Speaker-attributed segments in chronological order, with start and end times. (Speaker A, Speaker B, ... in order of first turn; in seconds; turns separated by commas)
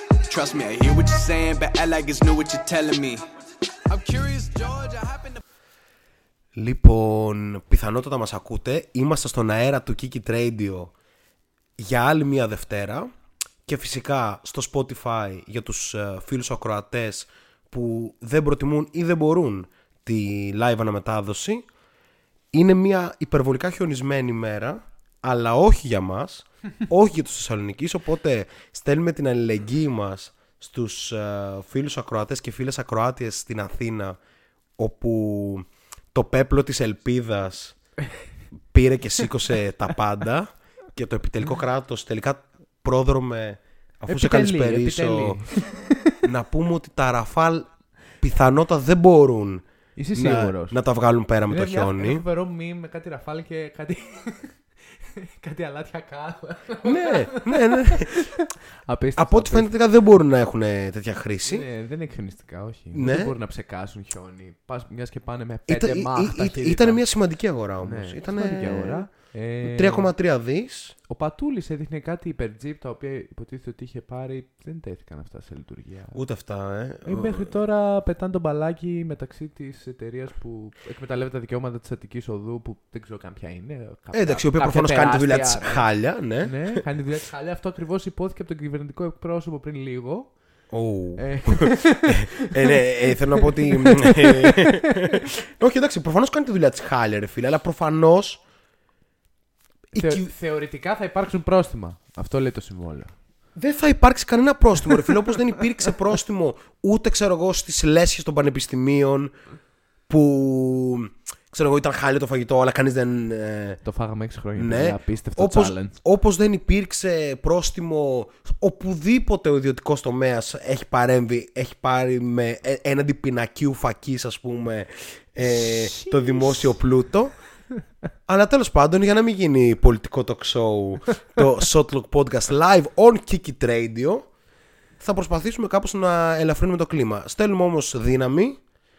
Speaker A: 0.3-3.2, Speaker A: 3.9-5.4, Speaker B: 6.5-10.9, Speaker B: 11.8-13.1, Speaker B: 13.7-21.6, Speaker B: 22.5-34.2, Speaker B: 34.8-37.8, Speaker B: 38.7-45.4, Speaker C: 44.1-46.1, Speaker B: 46.2-52.2, Speaker C: 50.0-50.8, Speaker C: 51.5-59.7, Speaker B: 56.8-58.2, Speaker B: 59.2-61.6, Speaker C: 61.5-67.0, Speaker B: 62.9-63.3, Speaker B: 65.7-70.9, Speaker C: 67.8-70.1, Speaker C: 71.1-76.2, Speaker B: 76.1-77.5, Speaker C: 77.0-85.8, Speaker B: 84.1-86.8, Speaker C: 86.4-90.4, Speaker B: 90.7-98.4, Speaker C: 91.2-95.2, Speaker B: 99.9-100.3, Speaker C: 99.9-103.2, Speaker B: 103.5-109.3, Speaker B: 110.1-113.8, Speaker C: 113.8-116.0, Speaker B: 114.5-127.4, Speaker C: 125.4-126.8, Speaker B: 128.2-134.3, Speaker B: 135.0-138.6